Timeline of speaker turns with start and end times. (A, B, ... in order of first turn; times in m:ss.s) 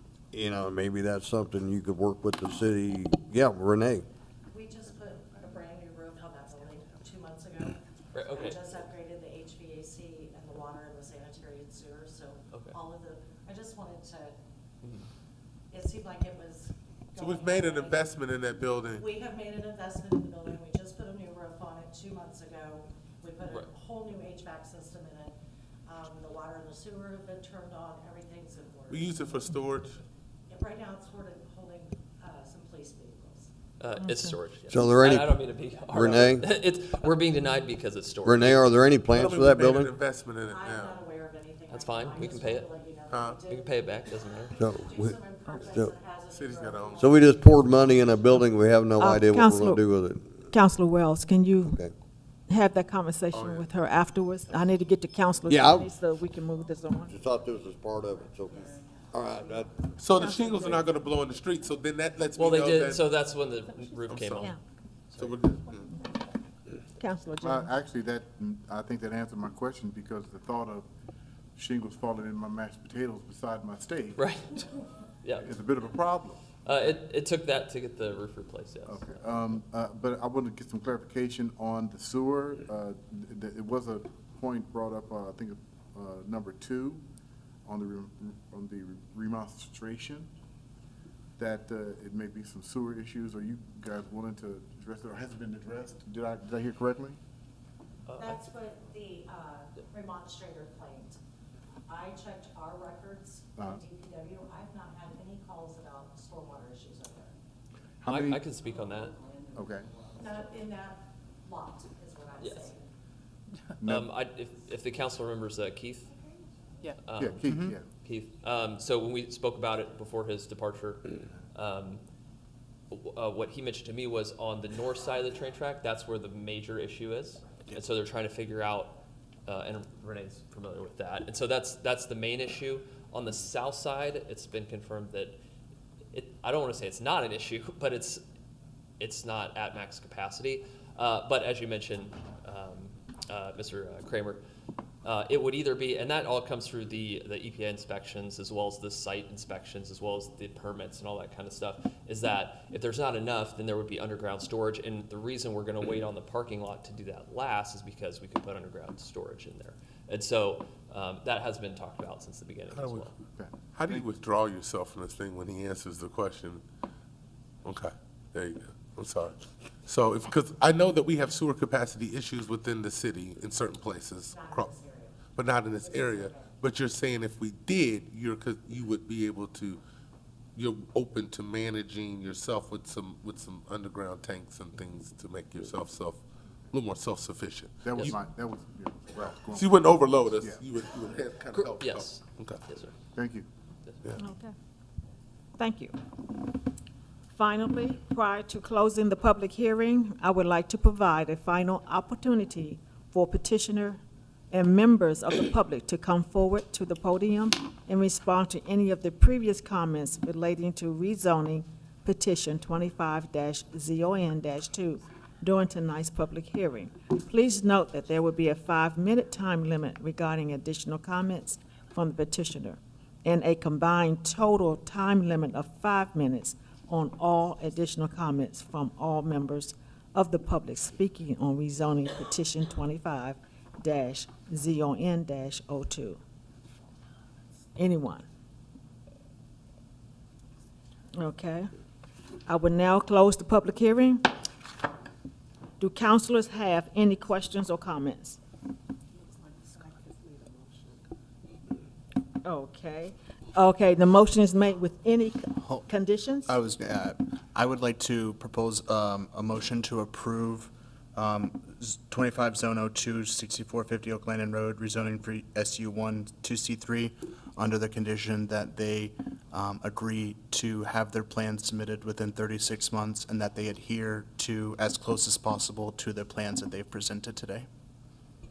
0:00.3-0:04.0 A
0:04.5-0:14.4 B
0:08.1-0:08.6 C
0:15.7-0:18.1 B
0:17.2-0:19.0 D
0:19.0-0:25.3 B
0:23.4-0:23.7 C
0:25.8-0:29.5 B
0:28.9-0:30.0 D
0:30.5-0:33.5 B
0:33.8-0:38.9 C
0:34.0-0:34.3 E
0:34.7-0:35.4 A
0:35.9-0:36.5 A
0:38.2-0:39.9 A
0:39.1-0:41.0 D
0:40.5-0:48.3 B
0:41.7-0:42.7 C
0:43.1-0:43.4 D
0:43.4-0:44.6 C
0:44.6-0:45.2 A
0:45.7-0:45.9 A
0:46.3-0:47.0 D
0:47.0-0:50.4 A
0:49.0-0:49.8 E
0:50.5-0:51.8 E
0:51.6-0:51.9 A
0:52.5-0:57.1 E
0:53.3-0:53.7 D
0:55.5-0:55.9 A
0:57.0-0:59.7 A
1:00.0-1:03.0 D
1:00.1-1:00.8 E
1:02.4-1:04.5 C
1:04.1-1:04.5 D
1:05.1-1:05.4 C
1:05.2-1:05.9 D
1:07.0-1:07.7 E
1:07.4-1:10.8 F
1:11.6-1:14.3 F
1:14.2-1:14.6 C
1:15.4-1:16.4 F
1:16.6-1:19.3 C
1:18.8-1:27.0 F
1:27.6-1:30.3 F
1:31.4-1:37.2 F
1:38.1-1:38.4 C
1:38.2-1:41.2 B
1:41.9-1:47.4 B
1:43.6-1:43.8 F
1:48.0-1:48.4 F
1:48.0-1:49.2 C
1:49.5-1:50.0 F
1:50.1-1:52.9 B
1:52.4-1:52.7 C
1:53.8-1:54.1 F
1:53.8-1:56.1 C
1:57.0-2:02.0 C
1:57.2-1:57.8 F
1:57.5-1:57.7 G
2:02.9-2:15.4 C
2:16.1-2:18.2 C
2:19.0-2:24.4 C
2:25.0-2:43.1 C
2:42.7-2:43.1 D
2:43.4-2:44.0 F
2:43.7-2:46.6 D
2:47.6-2:49.4 D
2:49.9-2:54.7 D
2:54.3-2:55.2 B
2:55.3-2:59.8 D
2:55.7-2:56.6 B
3:00.5-3:06.2 D
3:06.7-3:08.2 D
3:07.8-3:10.6 F
3:09.5-3:12.6 D
3:11.7-3:12.9 C
3:13.1-3:13.4 F
3:13.8-3:14.1 C
3:14.2-3:14.5 E
3:15.6-3:16.0 E
3:17.3-3:56.2 E
3:57.8-3:58.2 E
4:01.1-4:01.7 E
4:02.4-4:04.3 E
4:05.8-4:08.4 E
4:12.4-4:16.5 E
4:16.4-4:37.7 G